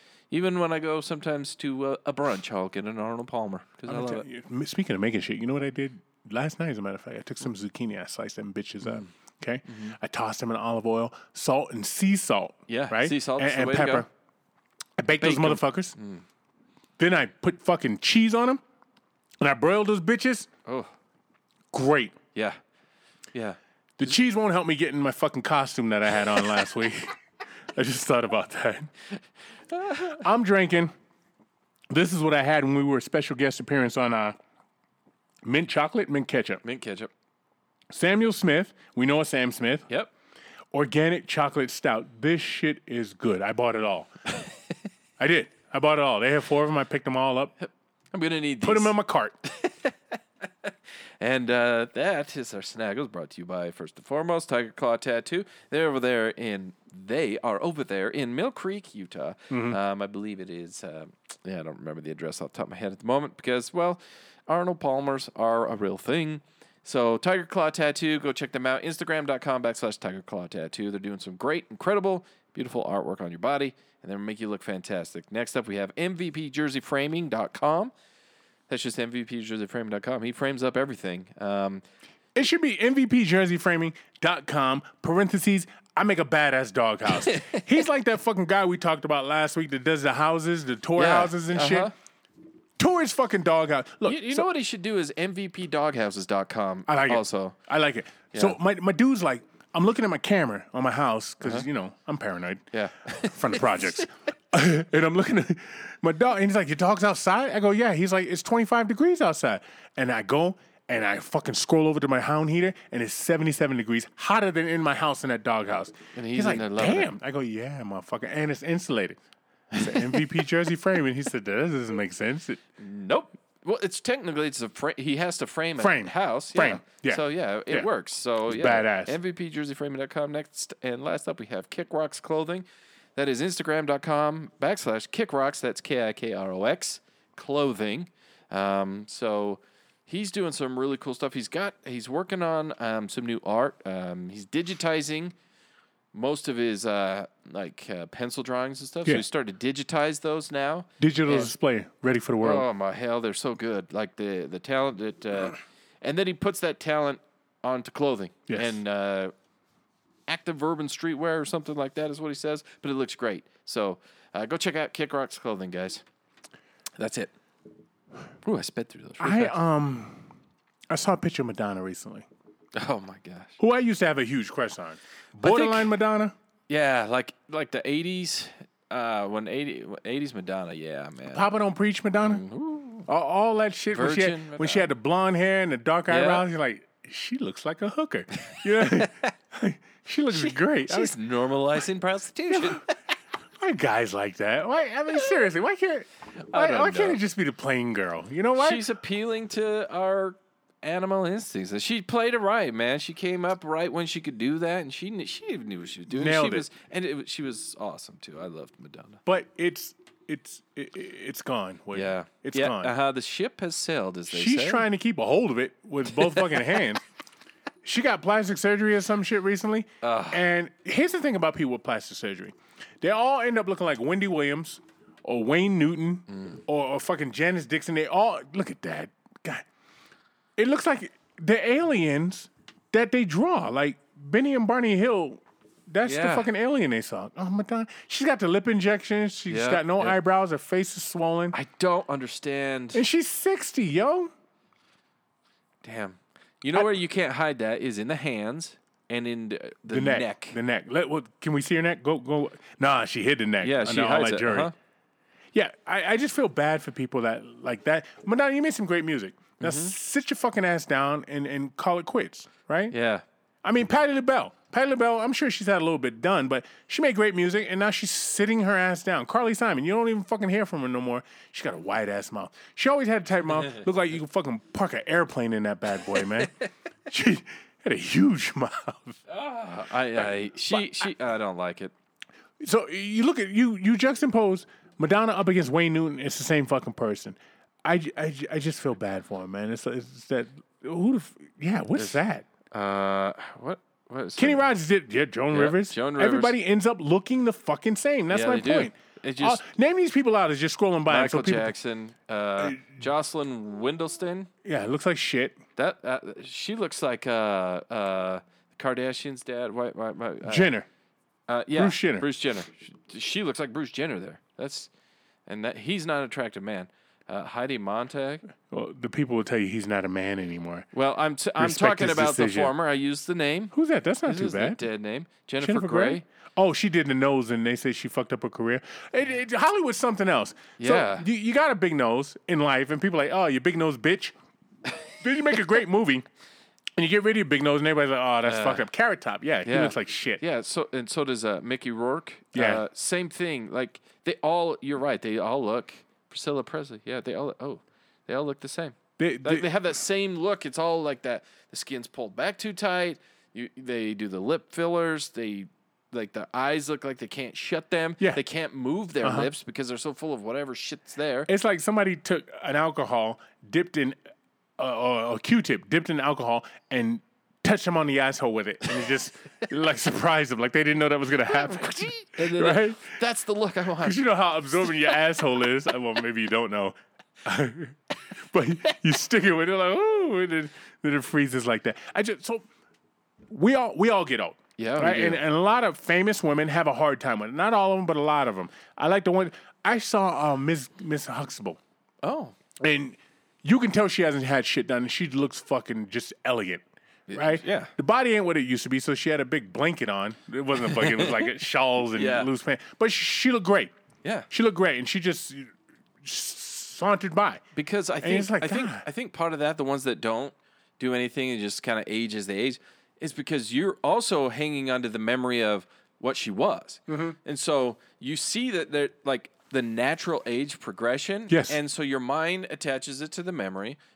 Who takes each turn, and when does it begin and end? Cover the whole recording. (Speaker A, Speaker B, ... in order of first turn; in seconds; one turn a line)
Speaker A: 0.3-4.2
Speaker B: 3.9-14.1
Speaker A: 8.8-9.1
Speaker A: 9.7-9.9
Speaker A: 12.7-14.0
Speaker B: 15.0-15.9
Speaker A: 15.2-16.2
Speaker B: 17.0-18.6
Speaker B: 19.4-20.5
Speaker A: 20.6-20.9
Speaker B: 21.7-22.2
Speaker B: 24.0-27.1
Speaker B: 27.7-28.9
Speaker A: 29.7-30.2
Speaker B: 30.1-30.9
Speaker B: 31.9-34.4
Speaker B: 35.4-36.6
Speaker A: 36.6-37.1
Speaker B: 37.9-39.9
Speaker B: 40.7-44.1
Speaker B: 45.2-47.5
Speaker A: 47.6-48.9
Speaker B: 48.6-49.3
Speaker A: 49.5-77.9
Speaker B: 59.5-59.8
Speaker A: 78.7-81.8
Speaker B: 82.3-91.9
Speaker A: 87.1-87.6
Speaker A: 91.0-91.9
Speaker B: 92.8-94.5
Speaker A: 94.0-97.6
Speaker B: 96.9-102.6
Speaker A: 102.7-104.0
Speaker B: 103.2-119.2
Speaker A: 116.1-117.1
Speaker A: 119.7-120.2
Speaker B: 119.7-122.6
Speaker A: 122.8-132.6
Speaker B: 125.8-127.9
Speaker B: 128.5-129.2
Speaker A: 133.2-145.3
Speaker A: 146.1-151.5
Speaker B: 151.0-152.7
Speaker A: 152.4-159.3
Speaker B: 158.5-158.8
Speaker A: 160.3-166.0
Speaker A: 167.0-167.3
Speaker A: 168.4-169.6
Speaker B: 169.2-170.3
Speaker B: 170.9-172.2
Speaker A: 172.7-173.6
Speaker B: 173.6-176.3
Speaker A: 175.4-175.9
Speaker A: 176.7-181.5
Speaker B: 181.3-182.4
Speaker A: 182.2-183.1
Speaker B: 183.1-191.1
Speaker A: 183.9-184.9
Speaker A: 186.1-186.4
Speaker A: 188.4-189.3
Speaker A: 190.3-192.9
Speaker B: 192.5-192.8
Speaker B: 193.6-198.8
Speaker A: 196.5-197.2
Speaker A: 198.6-209.2
Speaker B: 206.1-206.7
Speaker B: 209.2-212.9
Speaker A: 211.9-214.8
Speaker B: 214.3-217.0
Speaker A: 216.2-216.5
Speaker B: 217.8-229.7
Speaker A: 220.0-220.4
Speaker B: 230.6-241.5
Speaker A: 236.0-236.5
Speaker A: 239.5-240.2
Speaker A: 241.5-243.0
Speaker B: 242.9-244.3
Speaker A: 245.8-250.6
Speaker B: 249.9-254.7
Speaker A: 253.6-254.7
Speaker B: 255.5-262.9
Speaker A: 259.6-259.9
Speaker A: 262.9-263.2
Speaker B: 263.6-276.5
Speaker B: 277.1-279.2
Speaker A: 279.3-281.9
Speaker B: 280.1-280.9
Speaker B: 282.6-292.4
Speaker A: 292.7-294.7
Speaker B: 294.4-301.7
Speaker A: 295.5-296.5
Speaker A: 298.3-299.6
Speaker A: 301.1-304.5
Speaker B: 304.6-305.6
Speaker A: 305.8-310.7
Speaker B: 310.4-310.9
Speaker A: 311.5-314.9
Speaker B: 311.7-312.2
Speaker A: 315.5-318.4
Speaker B: 318.7-320.9
Speaker A: 320.9-323.7
Speaker B: 321.6-322.7
Speaker B: 323.7-324.8
Speaker A: 324.2-326.2
Speaker B: 325.6-334.3
Speaker A: 330.8-331.2
Speaker B: 335.2-336.2
Speaker B: 336.9-340.4
Speaker A: 338.4-338.8
Speaker A: 339.6-361.5
Speaker B: 342.5-342.8
Speaker B: 349.2-349.7
Speaker B: 359.2-359.5
Speaker B: 361.5-364.2
Speaker B: 364.8-373.1
Speaker A: 371.6-374.2
Speaker B: 374.0-382.7
Speaker B: 383.5-391.8
Speaker A: 384.8-385.4
Speaker A: 392.2-392.5
Speaker B: 392.8-396.8
Speaker A: 397.3-397.9
Speaker B: 397.3-403.9
Speaker A: 400.9-401.5
Speaker A: 402.1-402.5
Speaker B: 404.5-405.7
Speaker B: 406.2-407.6
Speaker A: 407.7-424.0
Speaker B: 408.2-409.0
Speaker B: 417.1-417.4
Speaker B: 421.5-421.8